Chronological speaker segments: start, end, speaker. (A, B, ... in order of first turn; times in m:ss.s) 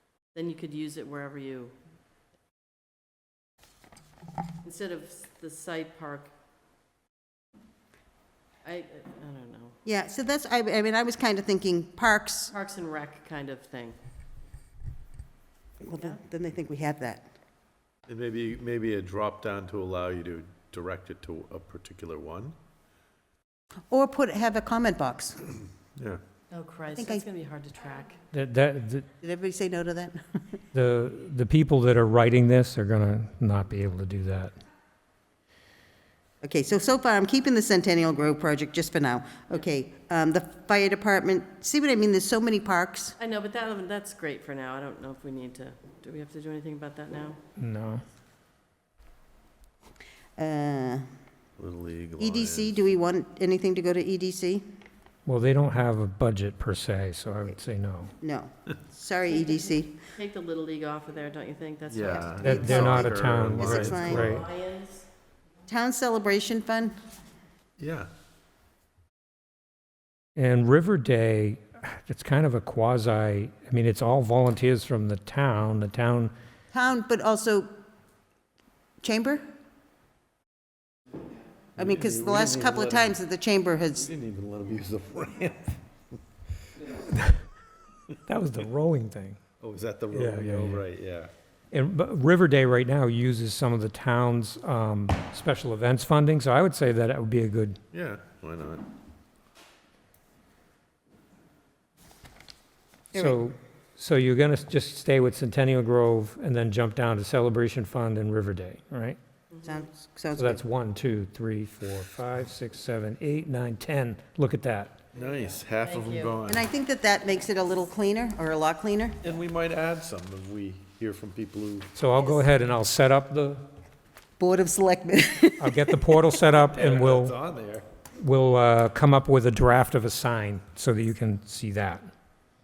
0:00.3-0:01.7 A
0:04.6-0:06.3 A
0:08.6-0:09.8 A
0:09.8-0:12.5 B
0:12.5-0:14.0 A
0:15.8-0:17.2 B
0:18.1-0:22.5 C
0:23.9-0:25.4 B
0:26.0-0:26.2 C
0:26.5-0:28.2 A
0:27.0-0:27.2 B
0:28.3-0:29.1 D
0:29.2-0:30.4 B
0:30.7-0:34.5 D
0:36.4-0:43.2 B
0:43.2-0:47.4 A
0:47.6-0:48.0 D
0:50.4-0:51.0 B
0:51.6-0:53.0 C
0:52.2-0:54.6 B
0:55.2-0:58.1 D
0:58.2-0:59.9 B
0:59.3-1:02.7 A
1:01.9-1:04.4 C
1:02.2-1:04.2 B
1:02.4-1:04.4 D
1:03.8-1:05.1 A
1:05.7-1:06.9 B
1:07.8-1:08.1 C
1:10.4-1:16.3 D
1:16.7-1:17.7 B
1:19.0-1:19.4 B
1:21.8-1:23.2 C
1:21.8-1:24.1 B
1:24.0-1:25.8 C
1:28.3-1:29.4 D
1:29.6-1:31.3 C
1:30.1-1:30.9 D
1:31.7-1:37.8 D
1:37.9-1:38.8 C
1:43.1-1:43.4 B
1:43.1-1:49.2 D
1:49.6-1:50.6 B
1:50.4-1:55.0 D
1:55.1-1:56.7 C
1:55.8-1:56.4 A
1:56.5-1:59.2 B
1:59.2-2:01.9 C
2:01.9-2:03.6 D
2:04.4-2:06.3 B
2:05.6-2:07.4 D
2:06.6-2:07.8 C
2:08.2-2:12.0 D